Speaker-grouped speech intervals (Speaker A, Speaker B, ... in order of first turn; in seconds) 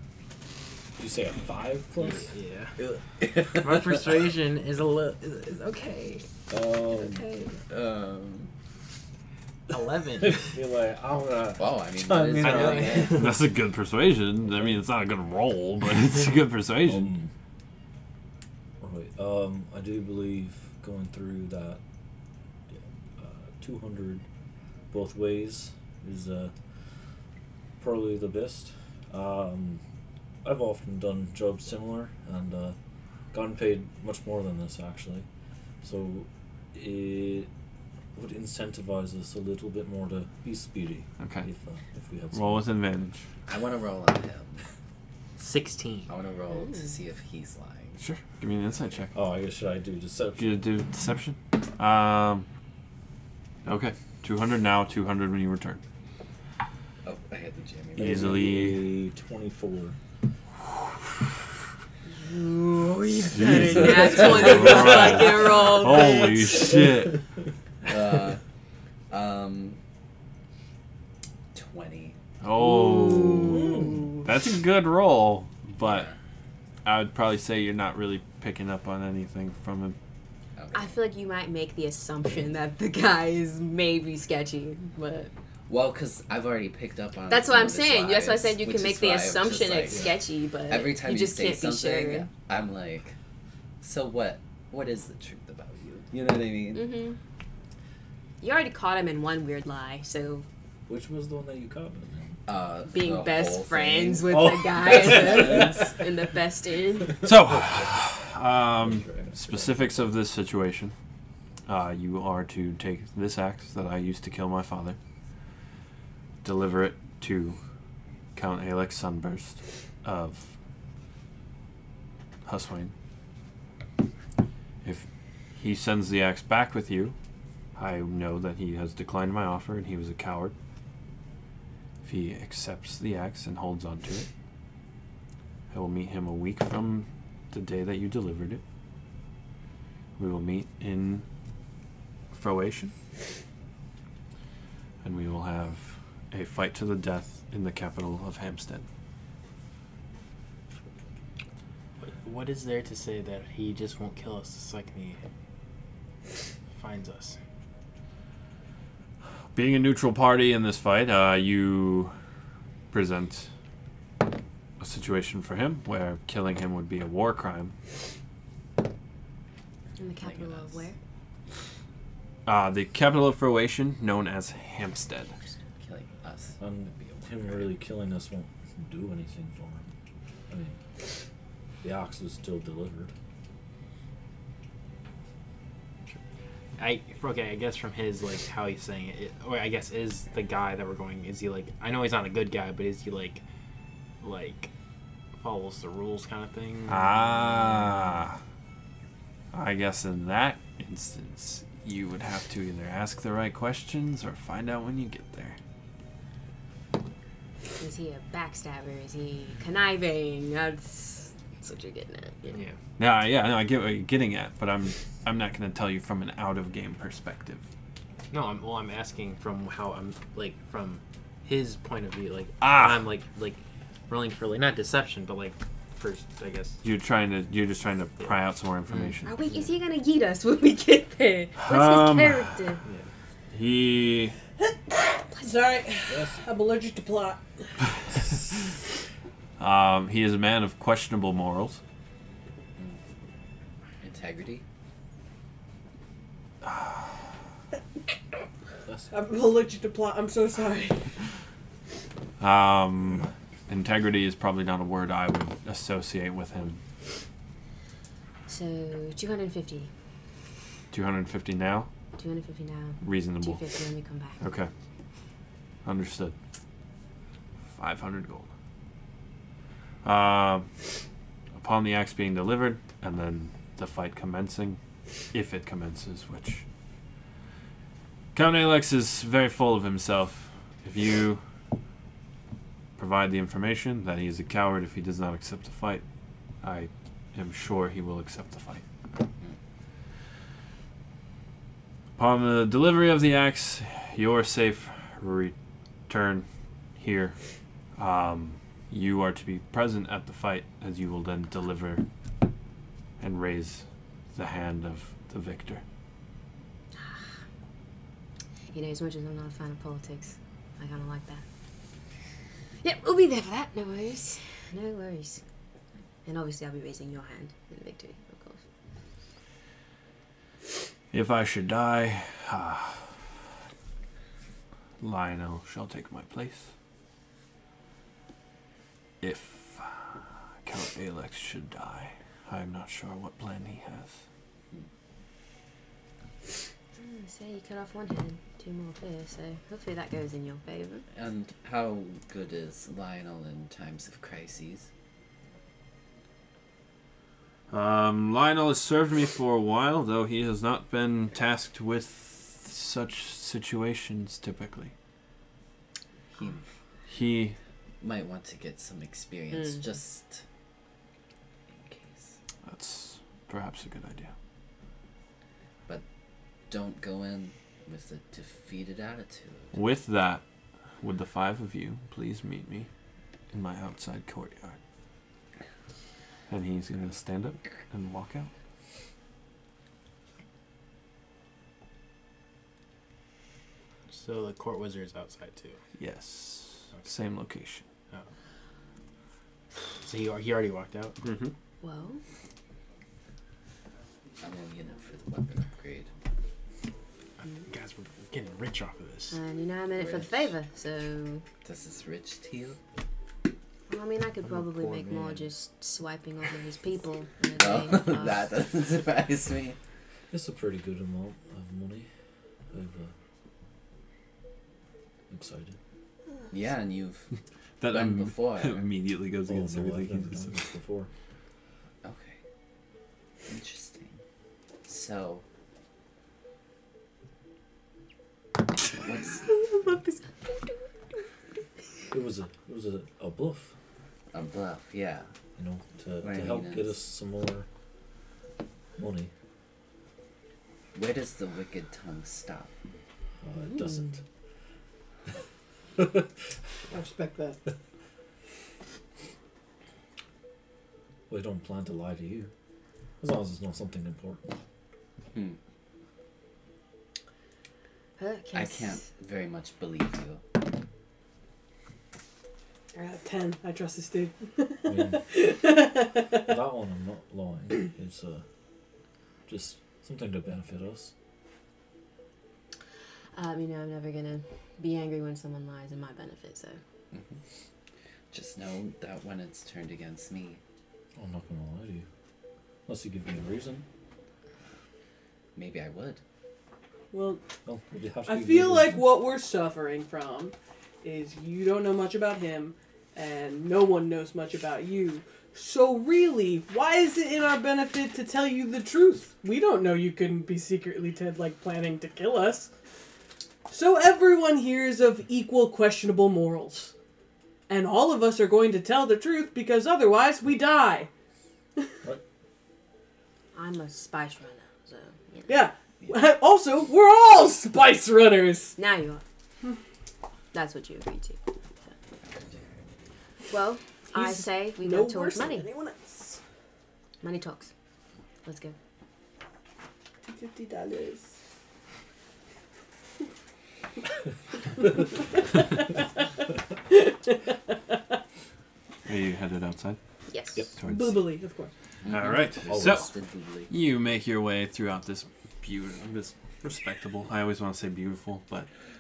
Speaker A: 1.0-2.3, 6.5-7.2, 10.2-13.4, 16.9-17.3, 18.8-21.8, 22.7-24.2, 24.9-26.5, 27.8-29.8, 30.4-32.8, 33.3-35.3, 35.8-37.5, 38.1-42.7, 49.1-50.6, 58.0-60.0, 73.6-74.0, 100.9-102.4, 104.3-105.9, 107.2-108.1, 108.8-110.1, 176.6-179.9, 180.5-180.8, 181.8-183.1, 236.1-236.4, 410.3-412.1, 412.7-413.1, 415.3-415.8, 419.5-421.1, 432.1-433.7, 435.6-437.7, 439.0-439.3, 443.4-444.2, 446.0-446.3, 451.3-452.5, 453.2-454.5, 464.9-465.2, 466.4-468.4, 469.5-471.1, 481.2-482.1, 482.9-483.9, 487.6-489.1, 542.7-543.1
Speaker B: 2.0-2.8, 3.4-6.3, 7.2-7.5, 9.7-10.6, 12.4-13.3, 45.4-46.1, 152.0-155.2, 156.7-157.4, 186.8-193.4, 194.2-194.7, 195.4-198.2, 212.5-212.8, 218.3-226.8, 228.9-229.2, 232.8-233.1, 384.1-385.8, 390.0-391.2, 397.7-399.4, 404.4-405.6
Speaker C: 2.8-4.0, 7.7-8.5, 11.6-13.2, 43.5-44.6, 46.1-48.0, 57.0-58.4, 63.8-65.0, 67.8-68.4, 69.1-69.8, 71.5-72.2, 75.8-76.1, 80.6-81.0, 85.7-93.2, 93.8-97.0, 102.5-104.5, 105.2-105.9, 170.2-170.8, 175.8-177.7, 244.0-244.6, 341.1-344.9, 356.3-356.6, 358.0-360.4, 361.7-362.4, 366.7-369.8, 394.4-396.1, 399.9-400.5, 401.6-402.8, 407.6-409.8, 416.5-417.3, 417.9-418.9, 422.0-422.4, 423.5-424.2, 424.9-425.4, 428.9-429.4, 434.3-435.3, 436.2-436.9, 440.9-442.7, 455.3-455.6, 458.5-460.4, 477.1-477.4, 478.3-480.6, 485.6-486.2, 542.0-543.7
Speaker D: 13.1-17.1, 41.2-41.5, 42.3-43.2, 48.0-49.2, 50.4-52.5, 53.6-55.8, 58.0-58.8, 63.3-67.2, 72.4-76.1, 76.8-80.0, 107.2-110.9, 111.7-115.0, 116.4-117.6, 118.3-120.5, 122.5-122.9, 124.8-127.2, 127.8-130.6, 132.0-134.3, 135.7-138.6, 140.2-141.2, 142.3-142.9, 145.0-148.9, 159.6-162.1, 162.9-163.5, 164.8-167.7, 172.5-175.3, 196.9-198.4, 199.5-205.6, 213.0-217.6, 222.6-223.1, 226.8-229.4, 231.6-232.6, 233.5-234.3, 239.6-241.8, 246.6-247.0, 252.4-256.8, 260.9-261.9, 263.0-263.6, 264.4-264.7, 265.9-266.4, 267.8-268.5, 270.0-270.7, 271.6-274.8, 275.3-276.6, 278.3-281.4, 283.0-286.0, 286.6-288.8, 292.2-295.5, 296.1-296.5, 297.0-297.4, 298.0-302.0, 303.2-305.8, 321.1-323.1, 325.0-326.7, 329.2-330.0, 330.6-334.2, 347.7-354.9, 357.1-357.6, 362.6-364.3, 369.7-370.4, 371.0-372.9, 373.5-374.8, 376.5-378.5, 386.0-387.8, 391.2-391.5, 417.8-420.7, 539.0-540.0, 540.8-541.2, 542.1-543.1, 543.7-548.7
Speaker E: 46.5-47.0, 62.1-66.6, 72.6-74.2, 80.7-85.3, 87.3-92.3, 96.7-97.2, 98.4-100.5, 102.9-107.2, 170.0-171.0, 207.8-212.6, 229.2-232.8, 235.3-235.6, 258.5-259.9, 262.2-264.4, 307.0-307.2, 308.7-311.4, 312.8-315.4, 316.2-318.6, 337.0-341.0, 359.5-359.8, 391.8-392.2, 399.3-401.4, 403.9-408.5, 429.5-430.8, 458.2-459.0, 473.4-476.8, 513.5-515.6, 518.8-519.2, 520.5-521.9, 523.5-525.7, 527.2-527.7, 528.5-528.8, 540.3-540.7
Speaker F: 234.6-237.4, 249.1-251.1, 446.9-447.6, 462.9-466.5, 487.1-487.4, 488.3-502.7, 503.7-506.9, 507.7-511.1, 515.5-518.8, 524.1-526.4, 530.2-531.3, 534.8-536.0, 536.9-537.8, 540.9-541.7